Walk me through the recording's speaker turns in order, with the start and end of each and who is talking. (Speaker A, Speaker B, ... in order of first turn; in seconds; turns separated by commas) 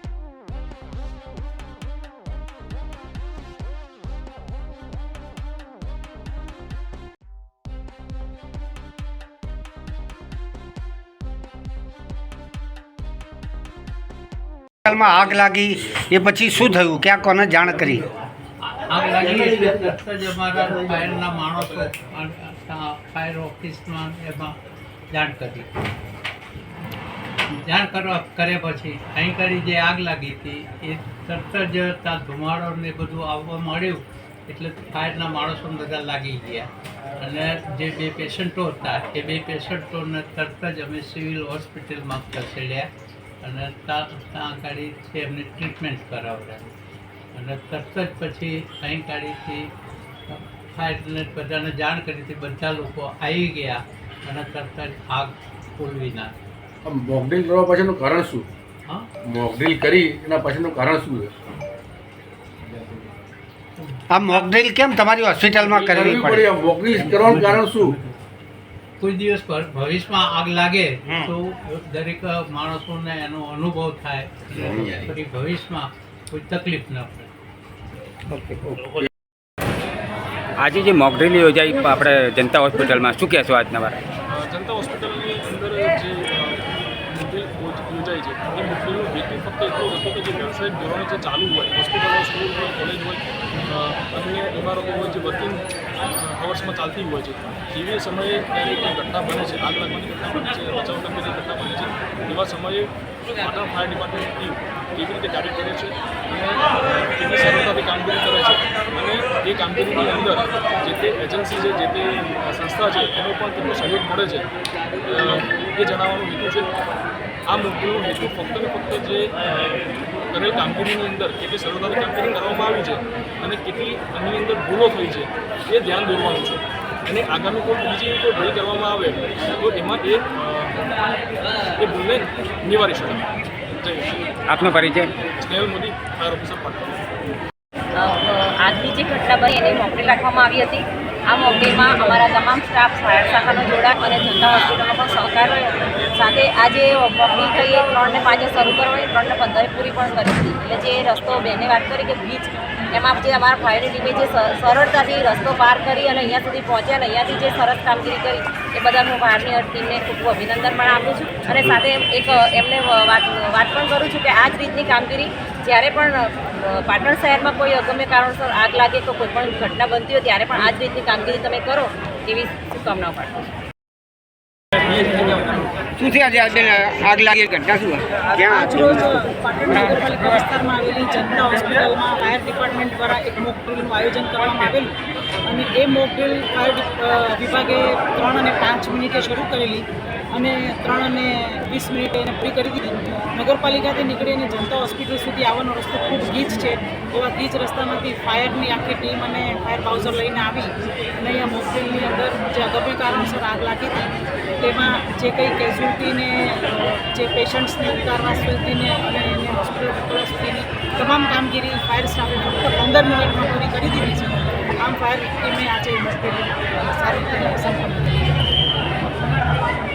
Speaker A: 14.9-18.0, Speaker B: 18.8-24.6, Speaker B: 25.1-25.7, Speaker B: 27.5-42.9, Speaker B: 43.4-46.7, Speaker B: 47.3-49.7, Speaker B: 50.3-56.3, Speaker C: 56.9-58.5, Speaker C: 59.2-61.3, Speaker B: 63.8-64.5, Speaker A: 64.1-66.5, Speaker C: 65.9-68.0, Speaker B: 67.0-68.0, Speaker B: 69.0-77.3, Speaker C: 74.5-75.2, Speaker D: 80.6-83.9, Speaker E: 84.3-95.6, Speaker E: 96.2-102.9, Speaker E: 103.4-114.5, Speaker E: 115.1-116.7, Speaker E: 117.5-119.3, Speaker E: 120.3-130.8, Speaker E: 131.8-133.2, Speaker E: 133.8-134.1, Speaker D: 134.6-135.1, Speaker E: 135.4-136.9, Speaker F: 137.9-173.4, Speaker C: 161.5-161.8, Speaker A: 176.0-179.0, Speaker G: 178.4-184.9, Speaker G: 185.5-189.8, Speaker G: 190.3-200.7, Speaker G: 201.2-204.1, Speaker G: 204.6-218.2